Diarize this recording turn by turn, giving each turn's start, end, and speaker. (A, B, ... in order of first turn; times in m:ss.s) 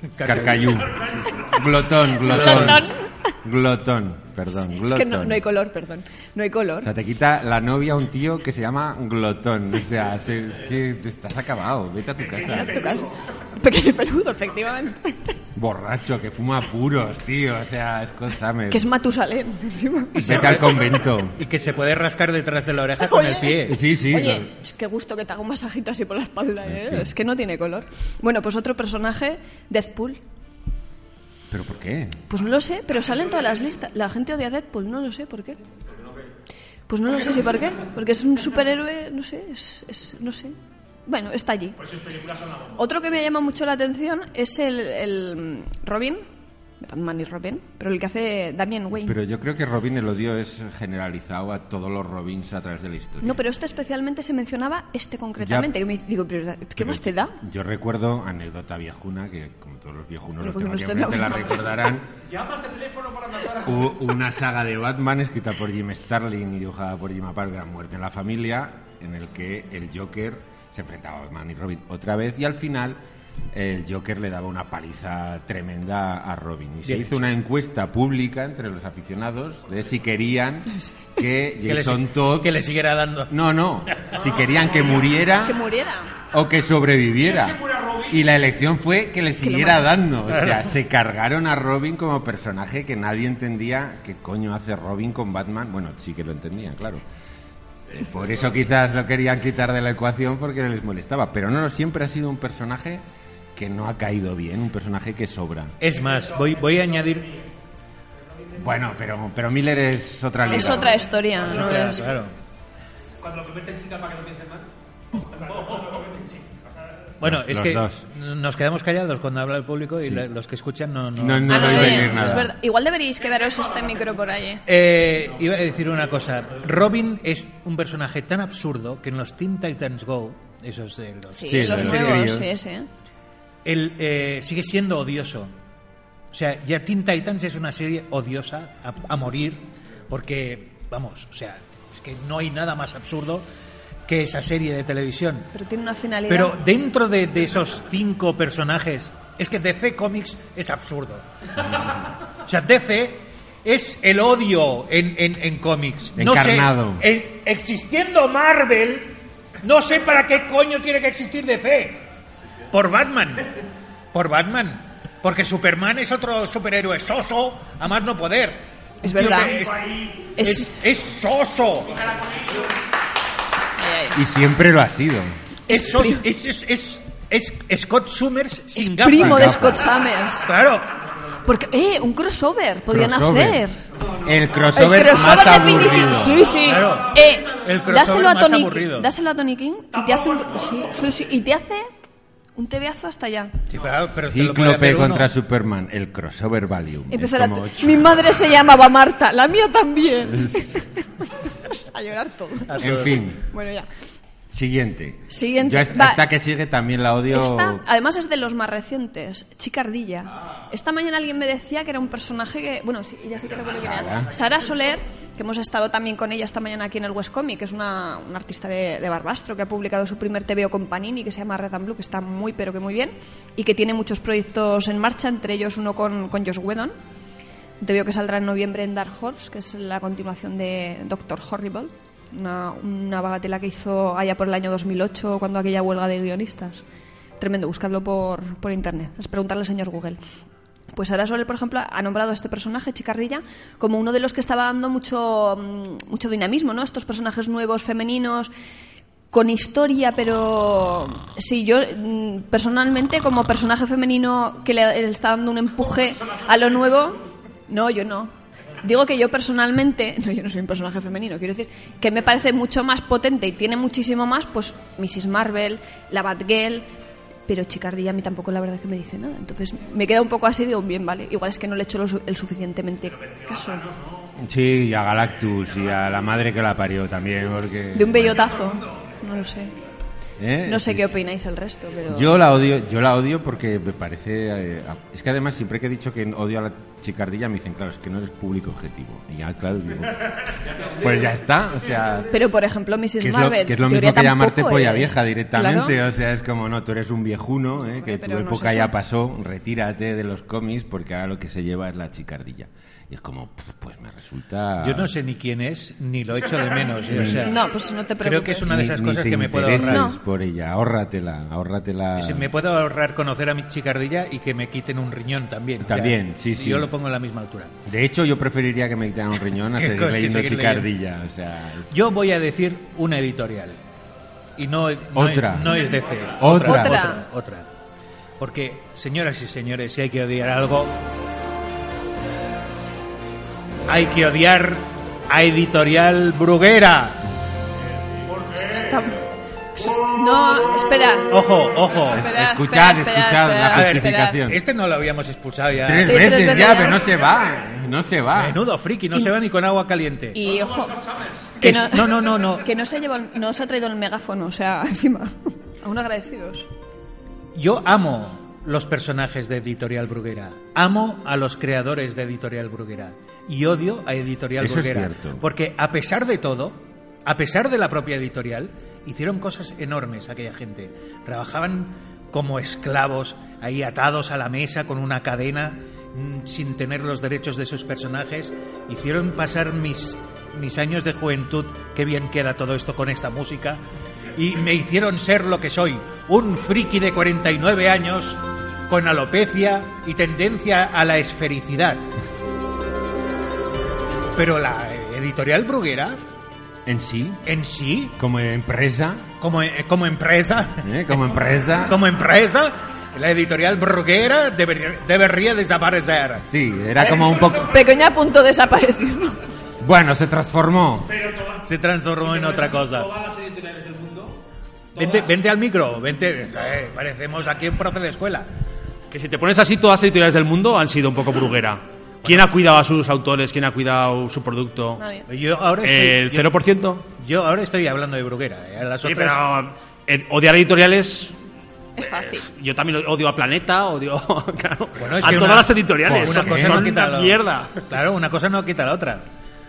0:00.1-0:01.2 A
0:00.2-0:02.9 B
0:02.2-0:03.3 C
0:02.3-0:02.8 A
0:03.4-0:05.4 B
0:04.8-0:06.9 C
0:06.8-0:12.9 B
0:12.4-0:15.4 C
0:15.6-0:18.9 B
0:18.7-0:20.4 C
0:20.1-0:23.8 A
0:20.2-0:21.4 B
0:23.0-0:30.2 C
0:23.6-0:24.5 B
0:26.6-0:27.1 B
0:31.5-0:32.2 B
0:32.3-0:35.6 C
0:36.9-0:41.8 C
0:42.7-0:46.2 C
0:46.8-0:49.2 C
0:49.0-0:53.4 B
0:53.2-0:57.4 C
0:55.4-0:55.7 B
0:56.8-1:02.1 B
1:00.4-1:01.7 C
1:03.4-1:13.0 B
1:13.5-1:22.6 B
1:16.8-1:17.3 A
1:21.7-1:24.1 A
1:23.3-1:25.6 B
1:25.4-1:26.1 C
1:26.3-1:37.0 B
1:29.4-1:29.9 C
1:30.3-1:30.7 A
1:37.9-1:45.7 B
1:45.8-1:47.4 A
1:48.6-1:51.0 B
1:50.5-1:52.0 C
1:51.4-1:52.3 A
1:57.2-2:02.5 A
1:57.2-1:58.0 B
2:01.1-2:02.5 B
2:01.5-2:04.6 C
2:04.7-2:12.2 A
2:11.3-2:12.9 C
2:11.4-2:12.5 B
2:13.6-2:15.5 A
2:16.3-2:23.4 A
2:24.1-2:25.5 A
2:25.5-2:26.6 C
2:26.3-2:42.0 A
2:36.2-2:37.0 B
2:42.7-2:43.6 A
2:44.1-2:52.1 A
2:49.0-2:49.6 C
2:50.4-2:50.7 C
2:53.8-2:54.2 C
2:54.1-2:55.4 B
2:55.7-2:56.2 C
2:55.7-2:59.8 A
2:58.7-3:00.5 C
2:59.1-2:59.9 B
3:00.4-3:00.9 A
3:01.4-3:03.8 C
3:02.9-3:03.6 B
3:04.2-3:06.5 B
3:04.7-3:11.9 C
3:06.6-3:09.1 A
3:12.6-3:13.5 C
3:13.7-3:15.3 A
3:14.3-3:18.4 B
3:17.1-3:23.9 C
3:22.7-3:23.3 A
3:22.8-3:23.4 B
3:24.5-3:27.8 B
3:25.3-3:26.2 C
3:27.3-3:47.0 C
3:33.8-3:34.3 B
3:47.8-3:56.8 C
3:57.4-4:00.2 C
4:00.9-4:08.5 C
4:09.3-4:26.9 C
4:27.5-4:33.9 C
4:34.3-4:38.5 B
4:37.9-4:39.7 C
4:40.4-4:41.2 B
4:40.6-4:42.3 C
4:42.1-4:50.3 B
4:50.9-4:52.4 B
4:52.3-4:56.0 C
4:53.2-5:05.1 B
4:58.0-4:58.9 C
5:04.8-5:10.0 A
5:07.1-5:07.6 B
5:07.3-5:08.7 C
5:08.6-5:12.5 B
5:09.8-5:10.2 C
5:12.2-5:17.7 A
5:15.8-5:16.9 B
5:17.9-5:21.9 B
5:19.7-5:20.9 A
5:21.9-5:23.8 A
5:24.6-5:27.7 A
5:25.1-5:27.0 B
5:26.6-5:27.2 C
5:28.4-5:31.0 A
5:33.9-5:37.2 A
5:38.5-5:39.2 C
5:39.8-5:41.5 C
5:41.3-5:42.3 A
5:42.1-5:44.4 C
5:42.1-5:44.6 B
5:43.7-5:46.4 A
5:45.7-5:48.6 B
5:46.0-5:47.0 C
5:48.3-5:50.4 A
5:50.3-5:51.0 C
5:51.6-5:56.7 C
5:51.6-5:52.6 A
5:57.6-6:23.8 A
6:04.6-6:05.4 B
6:24.3-6:32.0 A
6:34.3-6:36.2 A
6:36.9-6:37.4 B
6:37.4-6:38.1 A
6:38.2-6:39.3 B
6:39.4-6:46.4 A
6:40.8-6:42.0 B
6:46.4-6:47.8 B
6:47.0-6:49.4 C
6:49.8-6:51.2 B
6:51.6-6:53.2 A
6:53.0-6:54.4 D
6:55.0-6:58.5 A
6:59.1-7:05.0 D
7:02.2-7:02.5 A
7:05.0-7:05.3 C
7:05.3-7:09.4 A
7:05.8-7:07.0 D
7:09.0-7:11.4 D
7:12.0-7:12.5 C
7:12.0-7:17.8 D
7:15.0-7:19.3 A
7:16.0-7:16.9 B